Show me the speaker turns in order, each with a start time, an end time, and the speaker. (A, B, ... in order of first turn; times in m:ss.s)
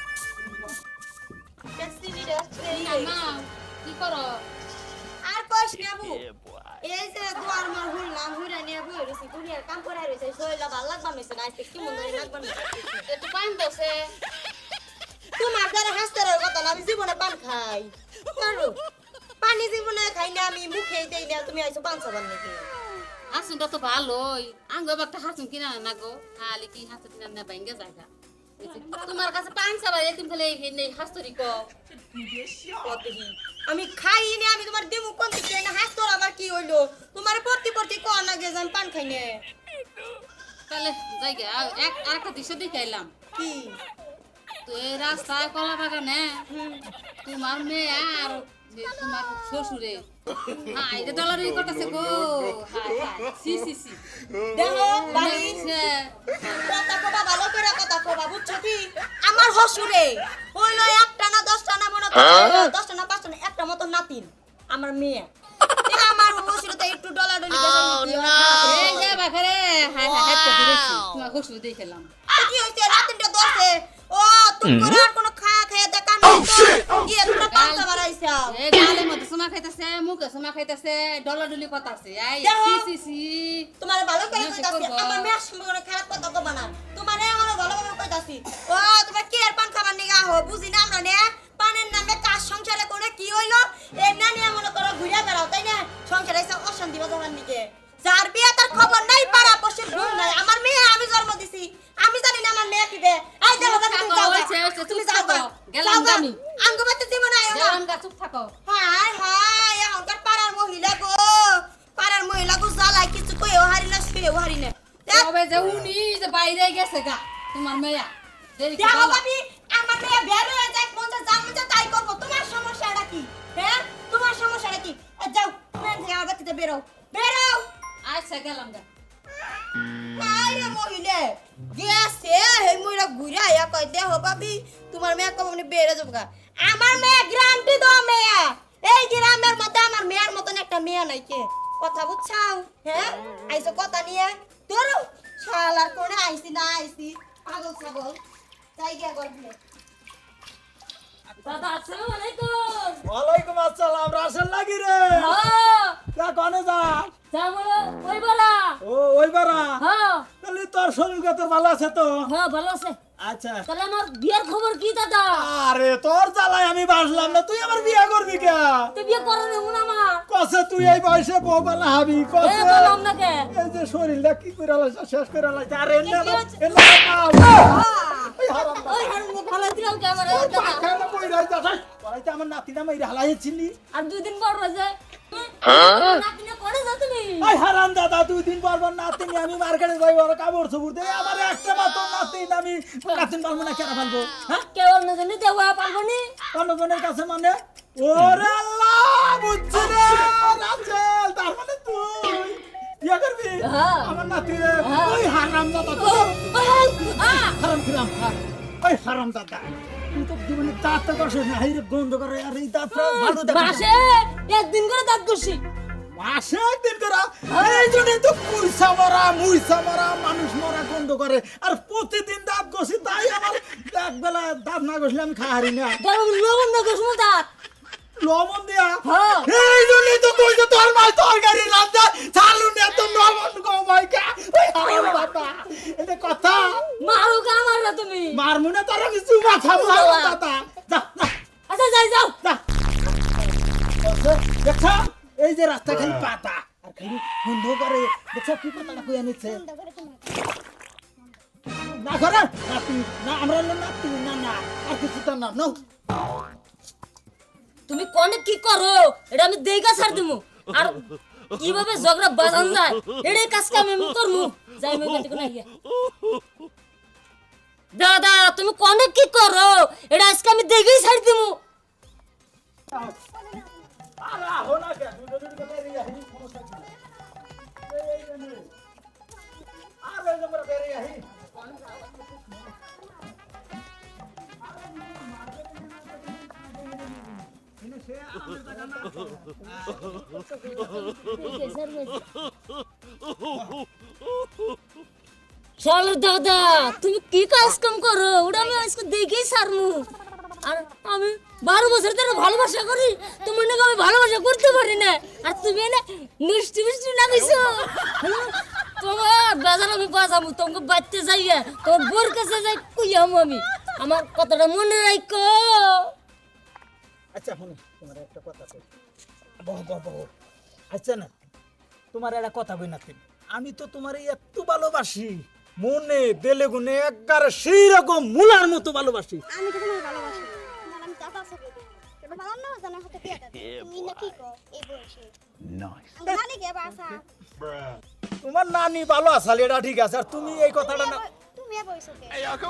0:01.8-0:03.2 A
0:02.7-0:04.4 B
0:05.2-0:06.2 A
0:06.8-0:13.0 A
0:13.1-0:14.1 B
0:15.4-0:18.8 A
0:19.4-0:22.7 A
0:23.3-0:28.1 B
0:28.6-0:31.7 B
0:32.8-0:39.4 A
0:40.7-0:43.1 B
0:43.3-0:43.8 A
0:44.6-0:46.4 B
0:46.5-0:46.8 A
0:47.2-0:50.1 B
0:50.7-0:54.0 B
0:54.5-0:55.6 A
0:55.1-0:56.1 B
0:56.4-1:05.3 A
1:05.8-1:09.1 A
1:08.6-1:12.1 B
1:12.3-1:18.6 A
1:17.5-1:17.9 B
1:18.5-1:23.7 B
1:22.4-1:22.9 A
1:23.8-1:47.8 A
1:24.3-1:25.3 B
1:43.5-1:46.4 B
1:47.5-1:48.5 B
1:48.6-1:55.3 A
1:55.1-1:59.2 B
1:58.8-2:07.7 A
2:08.0-2:08.8 B
2:10.1-2:28.2 A
2:28.8-2:29.5 A
2:31.4-2:33.0 C
2:33.0-2:35.4 D
2:35.1-2:36.0 C
2:36.1-2:37.1 D
2:37.3-2:38.8 C
2:38.8-2:39.8 D
2:39.8-2:40.3 C
2:40.4-2:42.3 D
2:42.2-2:43.0 C
2:43.2-2:43.7 D
2:43.7-2:45.5 C
2:45.3-2:48.9 D
2:48.9-2:50.2 C
2:50.3-2:53.0 D
2:52.4-2:53.5 C
2:53.5-2:57.8 D
2:56.1-2:56.6 C
2:58.4-2:59.1 D
2:58.9-3:00.8 C
3:00.3-3:03.8 D
3:03.9-3:07.5 C
3:07.4-3:14.7 D
3:14.7-3:16.3 C
3:16.5-3:33.9 D
3:23.6-3:24.1 C
3:24.8-3:25.2 C
3:26.0-3:27.6 C
3:32.9-3:35.6 C
3:36.1-3:46.0 D
3:37.5-3:38.2 C
3:46.0-3:47.5 C
3:48.2-3:56.8 D
3:49.0-3:49.5 C
3:57.0-3:58.4 C
3:58.3-4:01.3 D
3:59.6-4:00.4 C
4:01.7-4:02.4 C
4:04.0-4:09.6 D
4:08.8-4:10.5 E
4:12.0-4:15.8 D
4:17.9-4:25.7 C
4:27.9-4:31.6 C
4:32.9-4:33.2 D
4:33.3-4:34.0 E
4:34.2-4:36.9 D
4:37.8-4:38.7 D
4:40.0-4:42.8 D
4:44.6-4:51.1 D
4:50.7-4:52.3 C
4:53.5-4:53.8 D
4:55.8-5:00.1 C
5:00.6-5:16.1 C
5:17.3-5:18.8 D
5:19.6-5:20.3 D
5:20.9-5:21.3 D
5:22.1-5:29.4 D
5:29.5-5:35.3 E
5:36.2-5:37.2 E
5:38.4-5:41.2 D
5:40.7-5:42.6 E